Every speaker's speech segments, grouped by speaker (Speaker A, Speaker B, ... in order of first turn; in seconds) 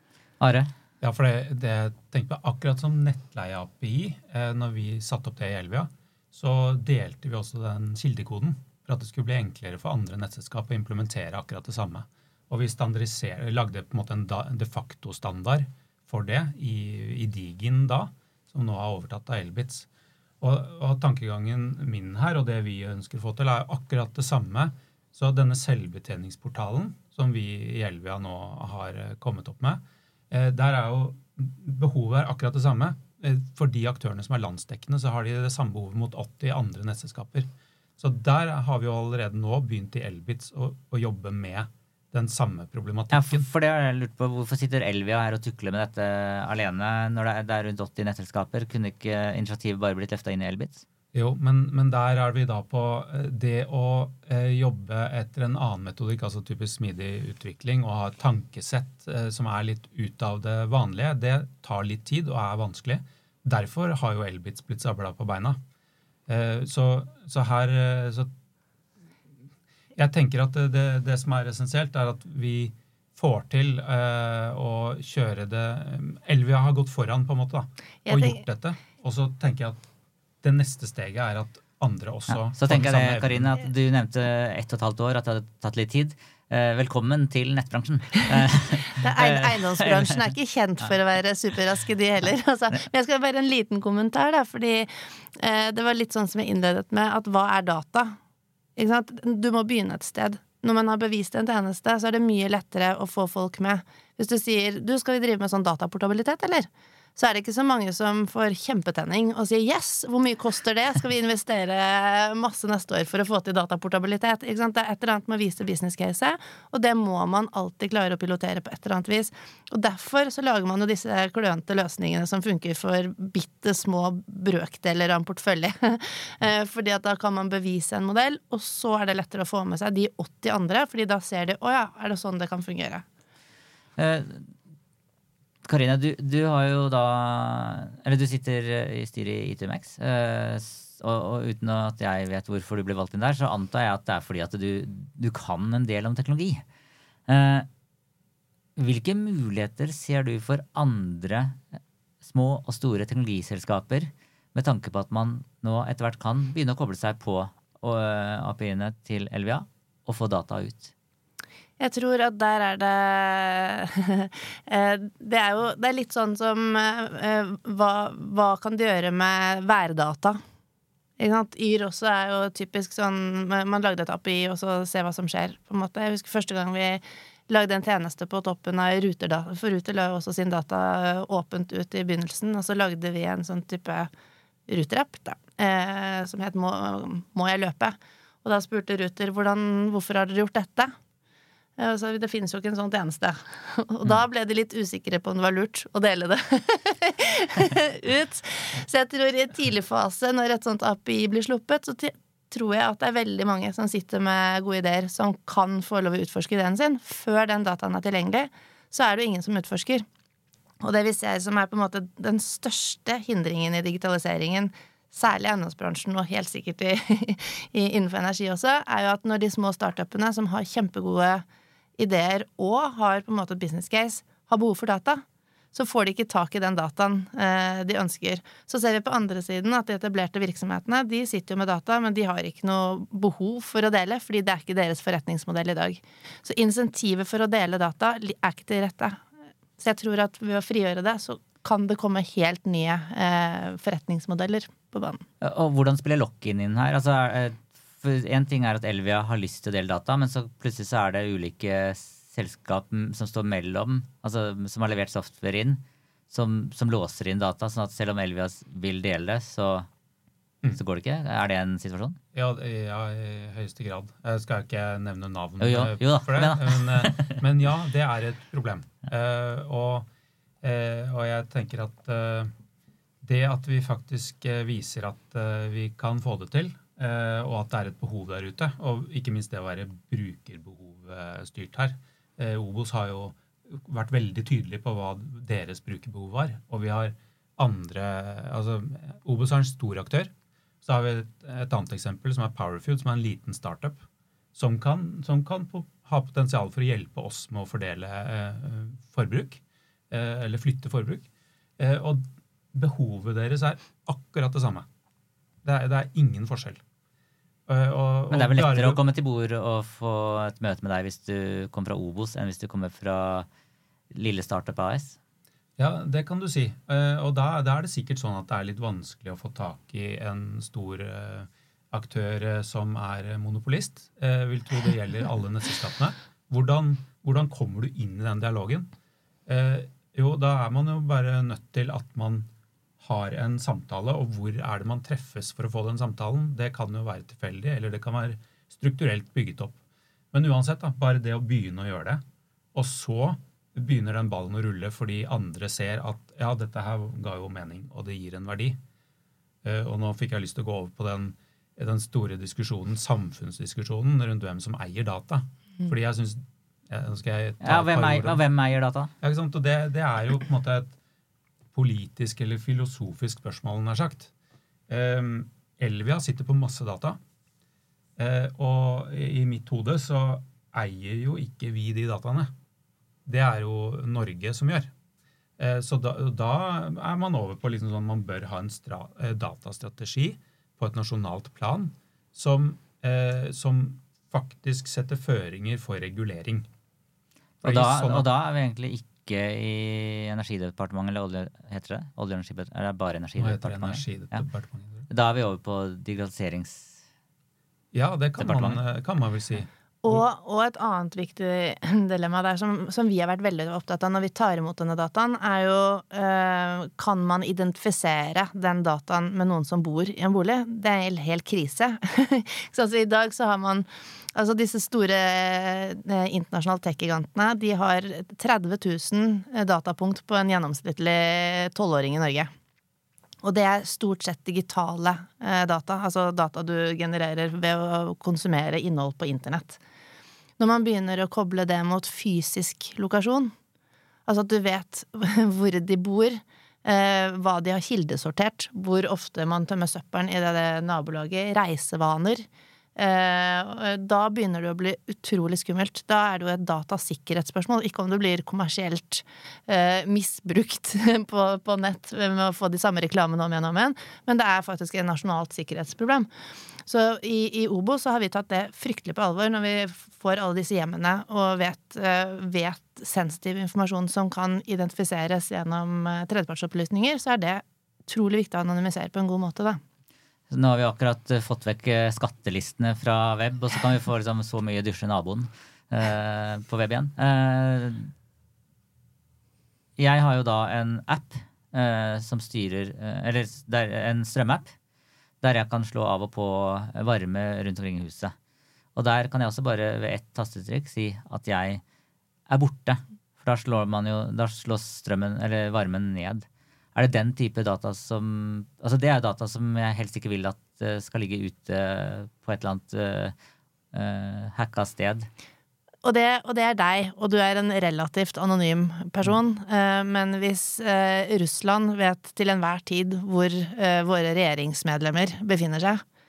Speaker A: 0.4-0.7, 43.1-50.8, 82.3-90.1, 134.0-134.5, 135.6-146.6, 147.3-147.7, 148.8-151.6, 152.2-160.9, 245.4-259.9, 260.7-262.2, 265.6-267.4, 308.3-313.5, 314.1-315.2, 357.6-359.1, 387.6-394.4, 395.1-397.0, 398.4-398.8, 470.5-478.1, 480.0-484.7, 485.4-488.3, 488.9-491.8, 492.5-503.3, 503.9-505.3
Speaker B: 1.0-19.9, 20.4-43.5, 51.1-65.6, 66.3-68.3, 70.0-79.8, 80.4-83.5, 262.3-270.1, 270.6-272.5, 273.2-290.3, 290.8-294.0, 294.5-301.3, 301.8-304.9, 305.6-306.8, 307.7-309.0, 315.8-328.9, 329.5-332.5, 333.0-339.8, 340.3-342.2, 342.7-348.8, 349.6-358.4, 359.2-360.9, 361.7-364.3, 364.9-367.2, 368.2-372.5, 373.2-374.9, 375.6-386.7, 387.6-388.3, 393.4-395.1, 397.9-400.2
Speaker C: 78.0-78.4, 88.8-98.2, 98.8-133.0, 161.8-170.4, 171.2-184.1, 184.7-190.9, 191.8-210.1, 210.8-221.4, 222.0-239.2, 239.8-245.2, 400.0-422.5, 423.4-429.8, 430.6-433.5, 434.2-456.3, 456.9-469.8, 506.0-516.0